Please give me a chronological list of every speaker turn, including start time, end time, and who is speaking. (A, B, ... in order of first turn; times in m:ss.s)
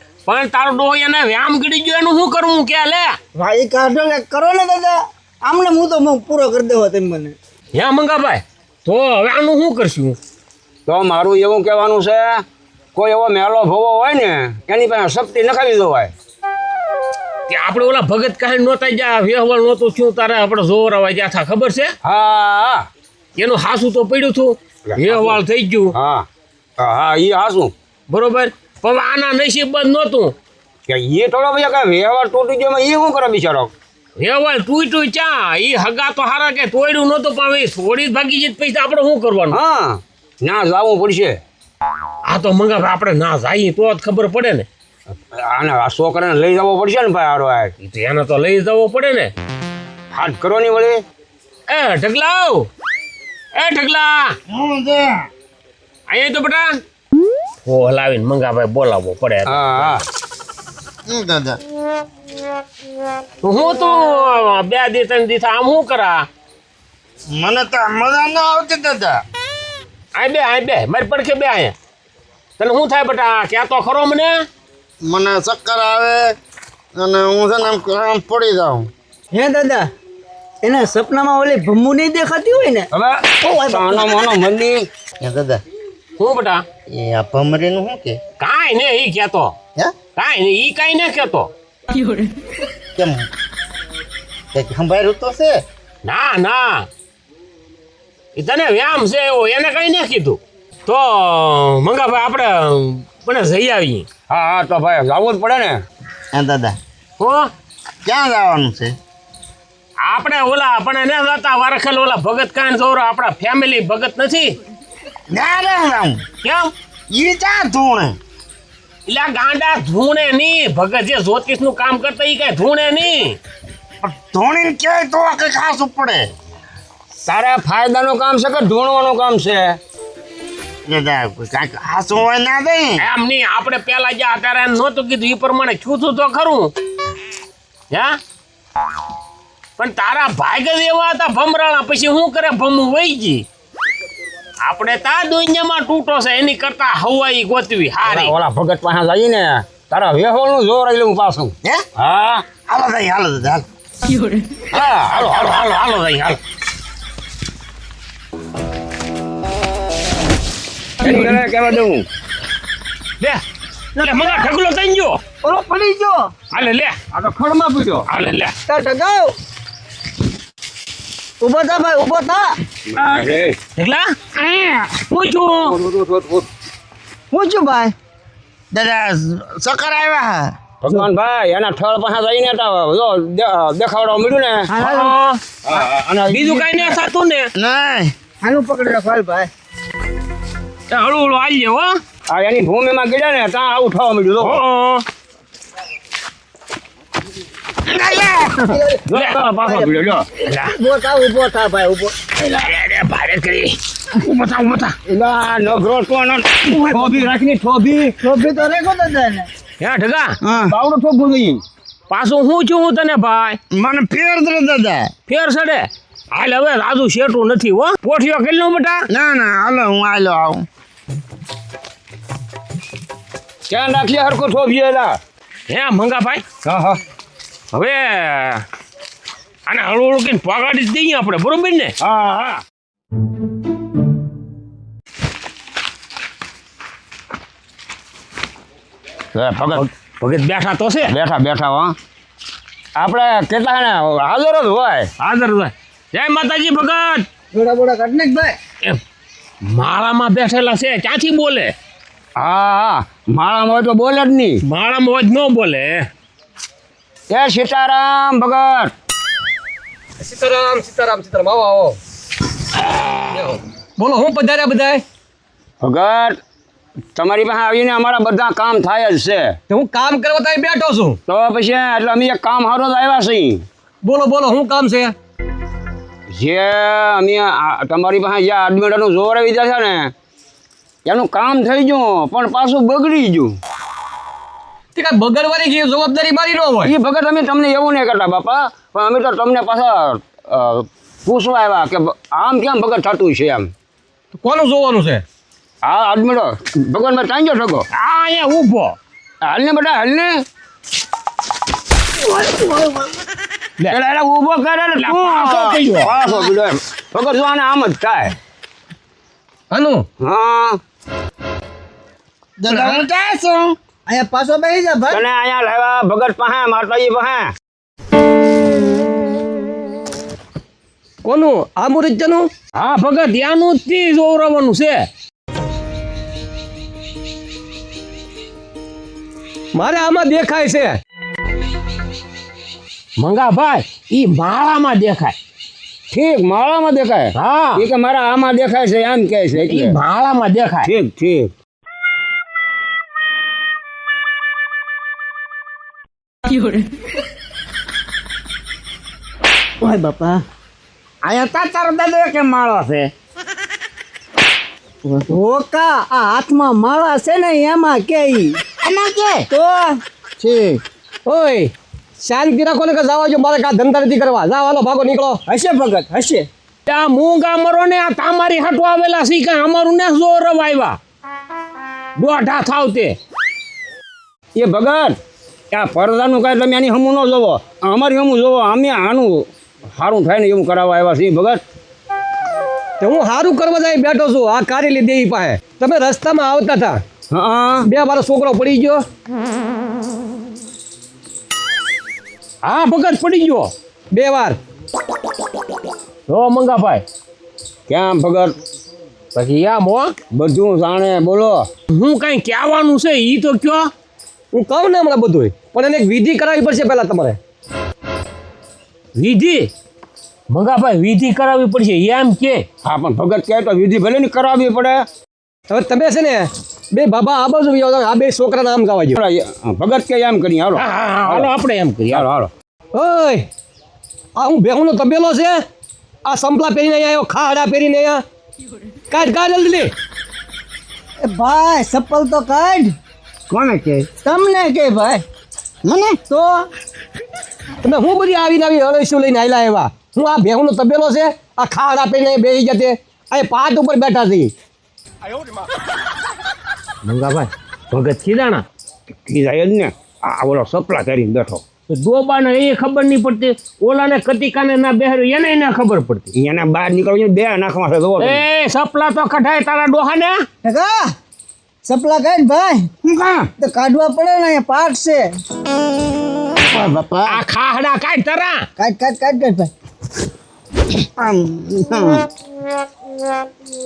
0:00.2-0:03.2 A
0:03.3-0:07.4 B
0:07.7-0:10.2 A
0:10.8-0:12.4 C
0:12.9-0:16.1 C
0:17.5-0:21.9 A
0:22.0-0:22.8 C
0:23.4-0:25.9 A
0:24.9-0:25.4 C
0:25.9-0:26.3 C
0:26.8-0:27.7 C
0:28.1-0:30.3 A
0:30.9-0:33.7 C
0:34.2-0:39.6 A
0:39.5-0:41.4 C
0:42.2-0:44.7 A
0:45.3-0:47.7 C
0:47.8-0:49.3 A
0:50.1-0:51.0 C
0:51.7-0:52.7 A
0:53.5-0:54.4 A
0:54.5-0:55.3 D
0:56.1-0:56.8 A
0:57.6-1:00.0 A
0:59.4-1:00.0 C
1:01.1-1:01.6 D
1:03.4-1:06.2 A
1:07.3-1:09.2 D
1:10.1-1:11.7 A
1:12.6-1:14.4 A
1:15.0-1:16.3 D
1:16.9-1:18.9 D
1:19.3-1:19.9 B
1:20.6-1:22.9 B
1:22.9-1:24.9 C
1:23.4-1:24.2 B
1:25.2-1:25.6 D
1:26.2-1:26.6 A
1:26.9-1:28.2 D
1:28.4-1:29.5 A
1:30.2-1:31.5 A
1:33.0-1:33.3 D
1:34.5-1:35.6 D
1:36.0-1:36.9 A
1:38.4-1:44.1 A
1:44.3-1:45.8 C
1:46.3-1:46.8 D
1:47.2-1:47.5 A
1:48.0-1:48.9 D
1:50.0-1:54.6 A
1:55.3-1:56.2 D
1:56.4-1:56.7 A
1:57.1-1:58.2 D
1:59.1-2:03.4 A
2:04.0-2:06.3 D
2:07.2-2:09.8 C
2:10.8-2:13.0 D
2:13.0-2:16.7 A
2:17.9-2:18.2 A
2:19.8-2:23.4 A
2:24.6-2:28.3 A
2:28.0-2:32.5 C
2:32.6-2:33.7 D
2:34.7-2:35.2 C
2:34.8-2:36.4 A
2:41.0-2:42.0 C
2:44.0-2:45.2 A
2:45.4-2:46.3 B
2:46.5-2:48.1 C
2:46.6-2:47.0 A
2:48.1-2:48.5 A
2:48.7-2:49.3 B
2:51.4-2:52.6 B
2:52.9-2:53.6 C
2:53.8-2:54.4 A
2:55.0-2:55.8 A
2:55.6-2:56.5 C
2:57.3-2:57.9 B
2:58.7-3:00.6 D
3:00.8-3:04.7 C
3:04.7-3:05.2 B
3:04.8-3:05.4 A
3:05.6-3:07.0 C
3:06.3-3:07.5 A
3:07.6-3:08.1 D
3:08.4-3:09.5 B
3:10.9-3:12.0 A
3:12.3-3:14.6 C
3:14.4-3:15.0 A
3:18.0-3:20.3 C
3:18.6-3:19.0 B
3:19.6-3:19.9 B
3:20.5-3:20.7 A
3:20.5-3:22.1 B
3:22.4-3:25.0 A
3:25.1-3:28.1 C
3:28.2-3:29.5 B
3:29.8-3:30.4 A
3:30.4-3:30.7 D
3:30.5-3:31.6 C
3:32.1-3:33.6 A
3:33.7-3:35.1 D
3:35.3-3:39.1 A
3:39.1-3:40.6 D
3:43.7-3:45.2 C
3:45.7-3:46.4 A
3:46.6-3:47.0 C
3:47.7-3:48.6 A
3:49.7-3:51.9 A
3:52.0-3:52.6 C
3:59.3-3:59.8 C
3:59.7-4:01.1 A
4:01.1-4:02.0 C
4:03.0-4:05.1 C
4:05.2-4:07.3 A
4:07.5-4:08.6 B
4:09.7-4:11.7 A
4:12.4-4:14.6 C
4:14.6-4:16.1 A
4:17.3-4:18.9 C
4:20.2-4:22.0 E
4:23.3-4:25.0 E
4:25.8-4:26.4 C
4:27.1-4:29.6 C
4:29.7-4:31.2 E
4:31.3-4:33.6 C
4:34.0-4:35.1 E
4:36.3-4:40.1 C
4:41.0-4:43.6 C
4:44.9-4:46.9 E
4:46.8-4:53.7 C
4:54.3-4:55.2 E
4:55.8-4:57.8 C
4:57.9-4:59.0 A
4:59.4-5:00.3 C
5:02.5-5:03.1 B
5:03.9-5:08.3 C
5:05.0-5:06.2 A
5:09.7-5:10.0 E
5:10.2-5:10.8 C
5:12.6-5:13.8 D
5:14.0-5:15.2 B
5:15.1-5:17.5 C
5:21.2-5:22.5 E
5:22.7-5:25.1 A
5:29.7-5:31.0 E
5:33.2-5:35.3 A
5:36.1-5:40.0 C
5:37.4-5:37.8 A
5:39.6-5:40.9 A
5:40.8-5:41.5 C
5:49.8-5:50.4 B
5:51.2-5:53.1 D
5:55.3-5:58.6 B
5:58.8-5:59.5 D
5:59.5-6:00.0 B
6:00.4-6:00.8 D
6:01.2-6:05.4 E
6:05.4-6:06.5 B
6:06.9-6:11.0 A
6:12.2-6:13.2 A
6:14.6-6:15.2 C
6:15.7-6:21.6 C
6:23.0-6:27.0 E
6:27.3-6:27.8 C
6:27.8-6:29.0 E
6:32.6-6:33.7 A
6:34.1-6:34.6 E
6:36.3-6:37.0 A
6:37.9-6:38.6 C
6:39.3-6:40.2 A
6:40.3-6:41.7 C
6:41.9-6:43.9 A
6:44.5-6:47.4 E
6:49.2-6:49.7 A
6:50.5-6:52.6 A
6:52.8-6:55.1 C
6:55.7-6:59.2 E
6:59.2-7:01.5 C
7:00.7-7:02.3 A
7:02.1-7:02.5 C
7:02.9-7:03.4 E
7:04.4-7:05.6 E
7:06.2-7:08.2 E
7:09.1-7:09.9 E
7:11.2-7:12.9 B
7:13.6-7:14.0 C
7:14.2-7:15.2 B
7:15.8-7:16.2 D
7:16.3-7:16.7 B
7:17.8-7:24.5 E
7:27.0-7:28.6 A
7:29.2-7:31.6 C
7:31.9-7:36.3 A
7:36.3-7:38.4 C
7:38.2-7:40.4 A
7:40.6-7:41.1 B
7:41.8-7:42.9 B
7:43.1-7:43.4 C
7:43.6-7:45.3 B
7:46.6-7:47.4 D
7:47.2-7:48.6 A
7:48.8-7:49.7 B
7:50.9-7:52.3 D